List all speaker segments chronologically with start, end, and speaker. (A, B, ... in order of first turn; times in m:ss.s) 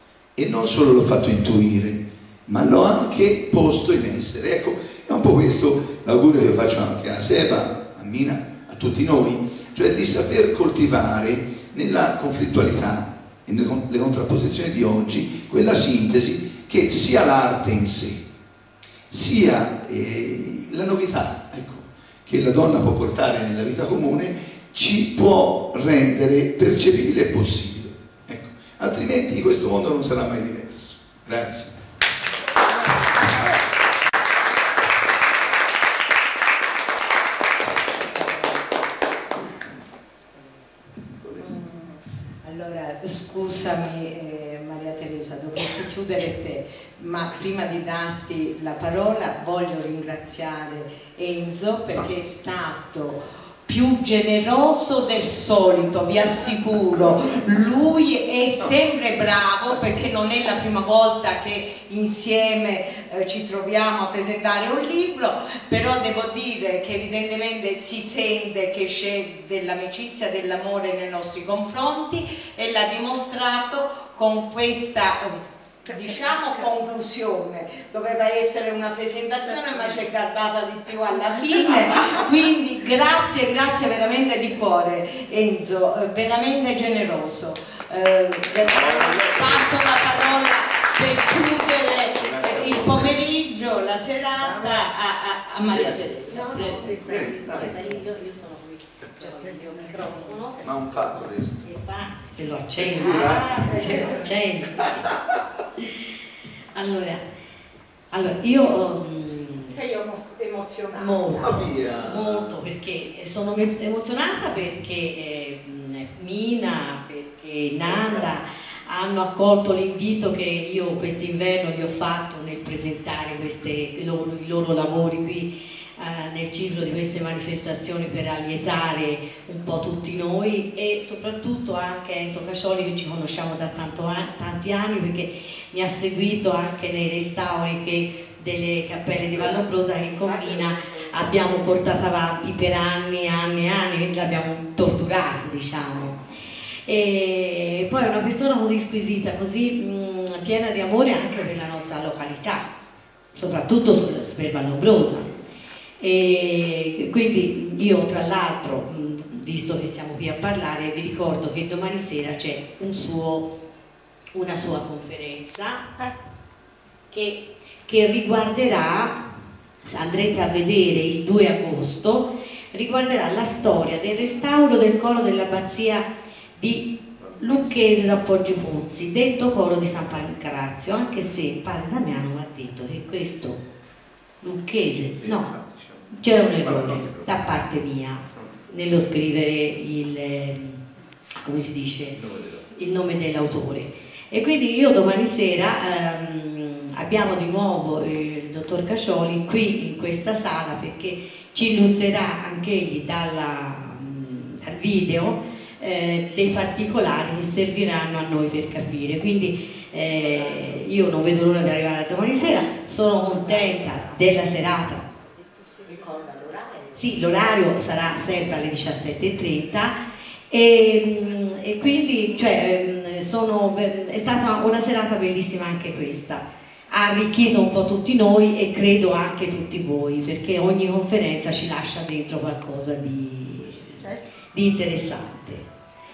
0:00.4-0:18.2 A
0:19.1-0:31.8 A
0:41.0-0:41.5 A
0:41.4-1:37.0 B
1:28.6-1:29.7 A
1:32.2-1:33.1 A
1:35.7-1:36.1 A
1:36.2-1:40.7 C
1:37.0-1:38.0 A
1:40.6-1:41.7 A
1:41.6-1:45.9 C
1:42.8-1:44.1 A
1:43.3-1:43.8 B
1:46.7-1:47.2 C
1:48.1-1:49.9 C
1:50.0-1:50.9 B
1:50.9-2:26.2 C
1:51.4-1:52.6 A
2:26.9-2:32.7 C
2:33.3-2:35.3 C
2:36.0-2:43.5 C
2:44.3-2:46.1 C
2:47.1-2:49.2 C
2:49.8-2:56.0 C
2:56.6-3:03.6 C
3:04.4-3:10.8 C
3:11.4-3:35.1 C
3:36.9-3:40.0 C
3:40.5-3:55.6 C